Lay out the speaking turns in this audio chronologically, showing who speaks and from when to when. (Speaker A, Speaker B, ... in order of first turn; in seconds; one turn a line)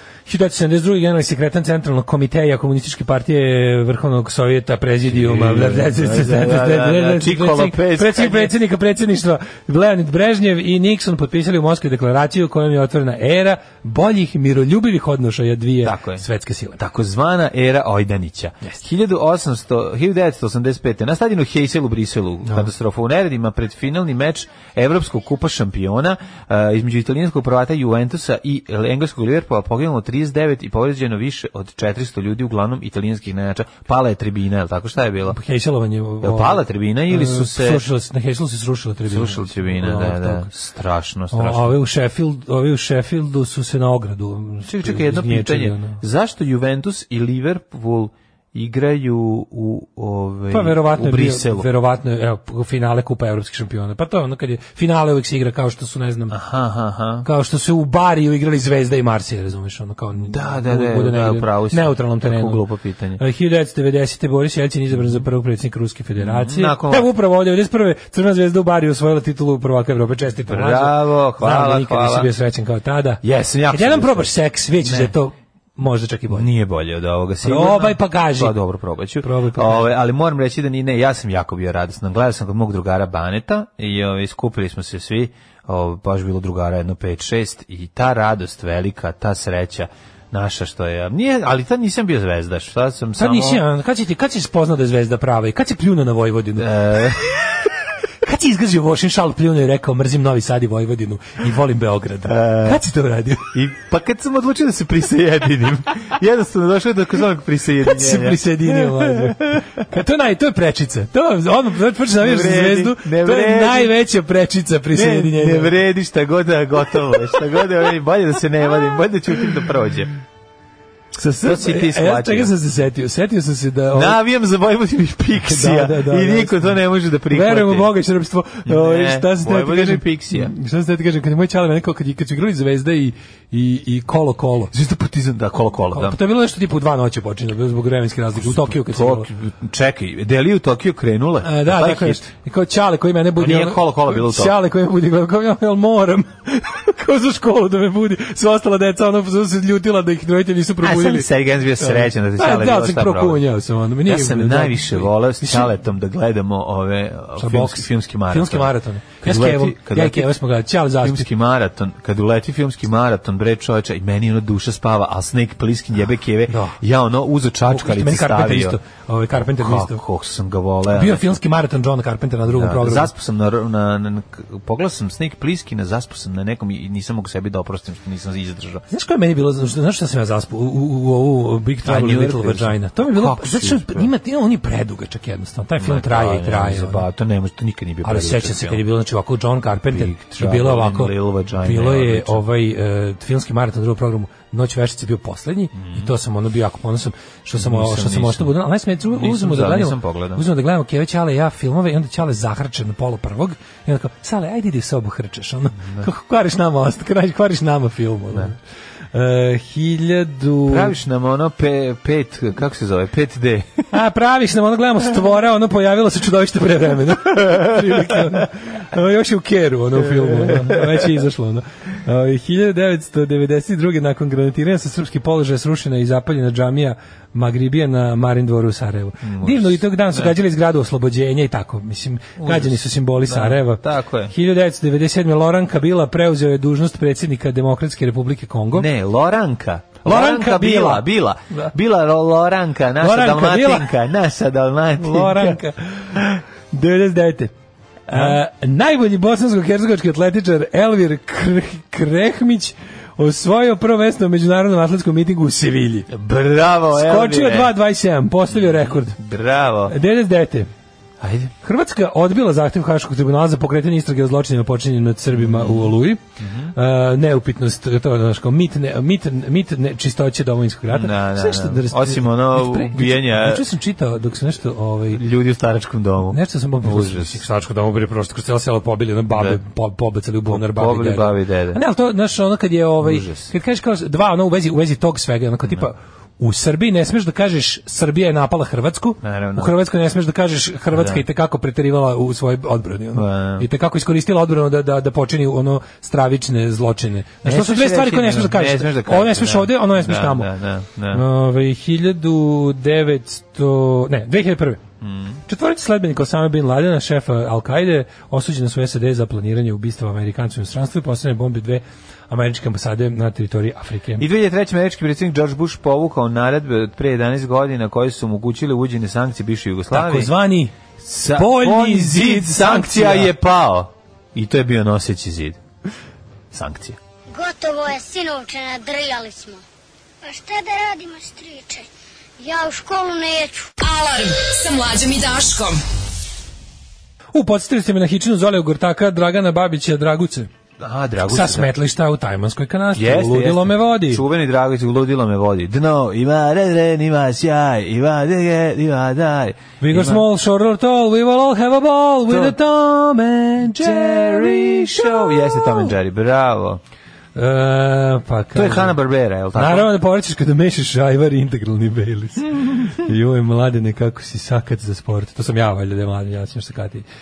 Speaker A: 0.3-16.8
Speaker B: 5.0-8.5
Speaker B: 15.8-16.2
Speaker B: 16.8-35.4
Speaker A: 35.3-40.5
Speaker B: 36.2-37.8
Speaker B: 39.1-41.7
Speaker A: 41.3-46.0
Speaker B: 44.7-51.7
Speaker A: 50.5-56.4
Speaker B: 56.3-57.3
Speaker A: 57.2-62.6
Speaker B: 60.2-63.2
Speaker A: 63.2-76.5
Speaker B: 66.2-67.1
Speaker B: 70.5-72.3
Speaker B: 73.2-74.3
Speaker B: 74.8-75.1
Speaker B: 76.3-93.6
Speaker A: 77.4-78.5
Speaker A: 79.2-79.9
Speaker A: 93.2-97.5
Speaker B: 96.6-97.2
Speaker A: 98.2-103.5
Speaker B: 102.2-102.8
Speaker B: 103.5-109.7
Speaker A: 107.8-115.7
Speaker B: 112.2-113.9
Speaker B: 114.9-120.1
Speaker A: 121.2-124.2
Speaker B: 121.4-122.5
Speaker B: 123.9-127.9
Speaker A: 125.4-126.7
Speaker A: 127.3-134.7
Speaker B: 128.7-130.5
Speaker B: 134.7-136.2
Speaker A: 135.9-139.3
Speaker B: 138.4-142.2
Speaker A: 141.4-151.3
Speaker B: 143.4-144.5
Speaker B: 150.8-153.4
Speaker A: 151.8-155.7
Speaker B: 154.1-160.3
Speaker A: 157.4-161.2
Speaker B: 161.0-168.8
Speaker A: 166.5-166.8
Speaker A: 167.7-170.0
Speaker B: 169.3-171.3
Speaker A: 170.9-173.1
Speaker B: 172.5-178.8
Speaker A: 178.9-187.0
Speaker B: 181.8-184.1
Speaker B: 185.8-188.8
Speaker A: 188.0-208.6
Speaker B: 189.9-192.4
Speaker B: 195.8-196.1
Speaker B: 197.6-198.5
Speaker B: 199.1-200.4
Speaker A: 209.1-210.9
Speaker B: 210.7-213.9
Speaker A: 213.9-238.9
Speaker B: 217.5-218.3
Speaker B: 220.0-220.9
Speaker B: 229.2-230.3
Speaker B: 232.4-234.3
Speaker B: 238.7-245.6
Speaker A: 240.0-241.7
Speaker A: 243.0-243.9
Speaker A: 245.0-247.5
Speaker B: 248.1-248.4
Speaker A: 248.1-256.1
Speaker B: 256.1-257.7
Speaker A: 256.9-259.2
Speaker B: 258.5-259.9
Speaker A: 259.9-260.7
Speaker B: 261.2-261.5
Speaker A: 261.6-266.2
Speaker B: 265.3-266.7
Speaker A: 266.7-275.2
Speaker B: 270.9-273.6
Speaker B: 275.1-277.4
Speaker A: 276.3-300.5
Speaker B: 279.3-279.6
Speaker B: 280.4-281.8
Speaker B: 283.0-283.5
Speaker B: 289.2-289.7
Speaker B: 290.9-291.2
Speaker B: 293.1-293.6
Speaker B: 297.4-301.2
Speaker A: 301.1-304.8
Speaker B: 305.0-305.4
Speaker A: 305.5-314.2
Speaker B: 314.2-320.3
Speaker A: 319.9-320.7
Speaker B: 321.0-325.6
Speaker A: 321.3-323.3
Speaker B: 326.5-327.0
Speaker C: 327.4-329.6
Speaker C: 330.3-331.9
Speaker C: 332.4-333.7
Speaker D: 333.7-335.8
Speaker A: 337.3-340.5
Speaker B: 340.8-341.7
Speaker A: 341.3-344.2
Speaker B: 342.9-350.2
Speaker A: 349.8-355.8
Speaker B: 352.3-356.8
Speaker A: 357.4-358.9
Speaker B: 358.5-359.9
Speaker A: 359.5-367.0
Speaker B: 362.6-362.9